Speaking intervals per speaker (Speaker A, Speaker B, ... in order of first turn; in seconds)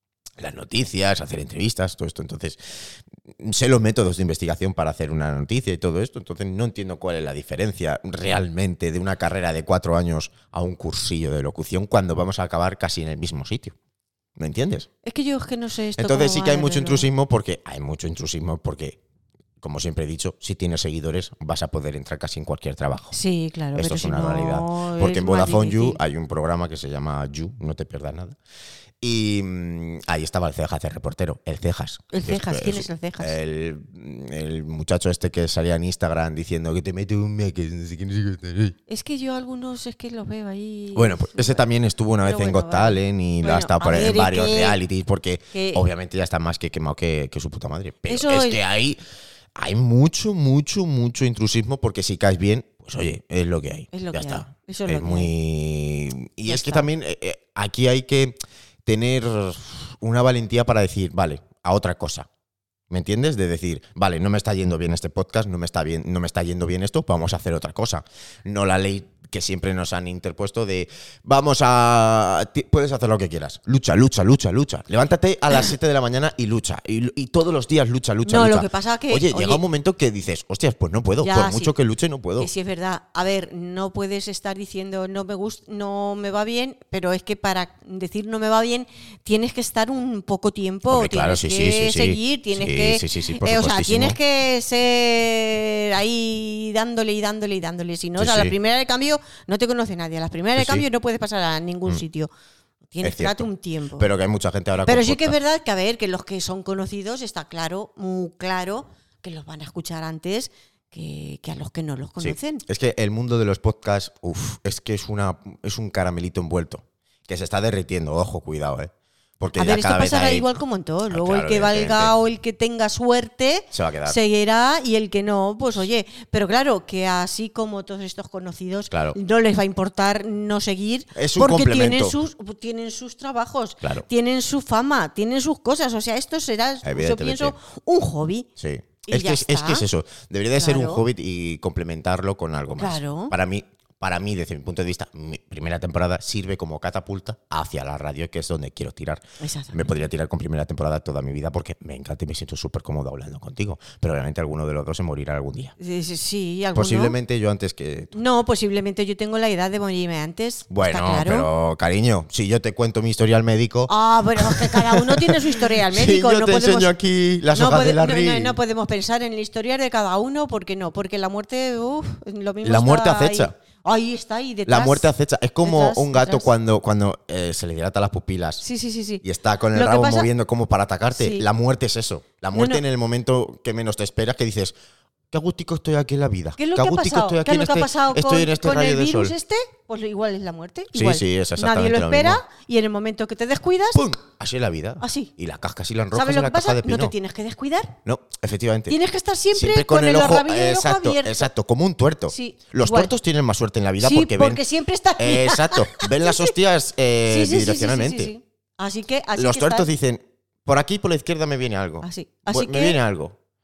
Speaker A: 0.4-13.8, 14.4-14.9, 16.0-19.0, 19.6-23.1, 23.8-28.4, 29.0-38.8, 41.0-49.0, 49.6-62.3, 62.9-82.5, 90.9-94.2, 98.2-98.5, 100.6-100.8, 103.0-105.4, 112.2-120.5, 121.1-122.1, 123.7-124.2, 128.9-129.2, 131.2-132.2, 136.8-137.5, 138.6-155.8, 156.8-158.2, 160.7-168.6, 172.6-173.5, 174.7-178.6, 179.2-184.8, 185.3-189.3, 190.9-192.4, 193.9-197.1, 198.0-199.0, 199.5-204.6, 205.2-208.3, 209.4-213.4
Speaker B: 15.0-17.1, 23.1-26.0, 32.1-33.4, 38.9-41.6, 42.2-44.8, 45.5-45.8, 48.1-48.6, 53.9-55.3, 56.5-56.9, 78.2-79.6, 81.2-81.7, 82.4-102.3, 102.9-104.1, 104.8-112.6, 119.6-138.5, 139.1-139.9, 140.6-141.0, 142.8-143.3, 149.4-150.0, 155.8-157.2, 158.1-161.5, 163.9-166.9, 167.5-175.1, 175.6-176.5, 178.6-180.3, 181.2-181.5, 182.5-182.8, 186.6-194.0, 195.0-195.3, 196.1-198.0, 198.9-201.5, 202.3-203.1, 204.0-206.5, 207.3-209.9, 212.0-213.0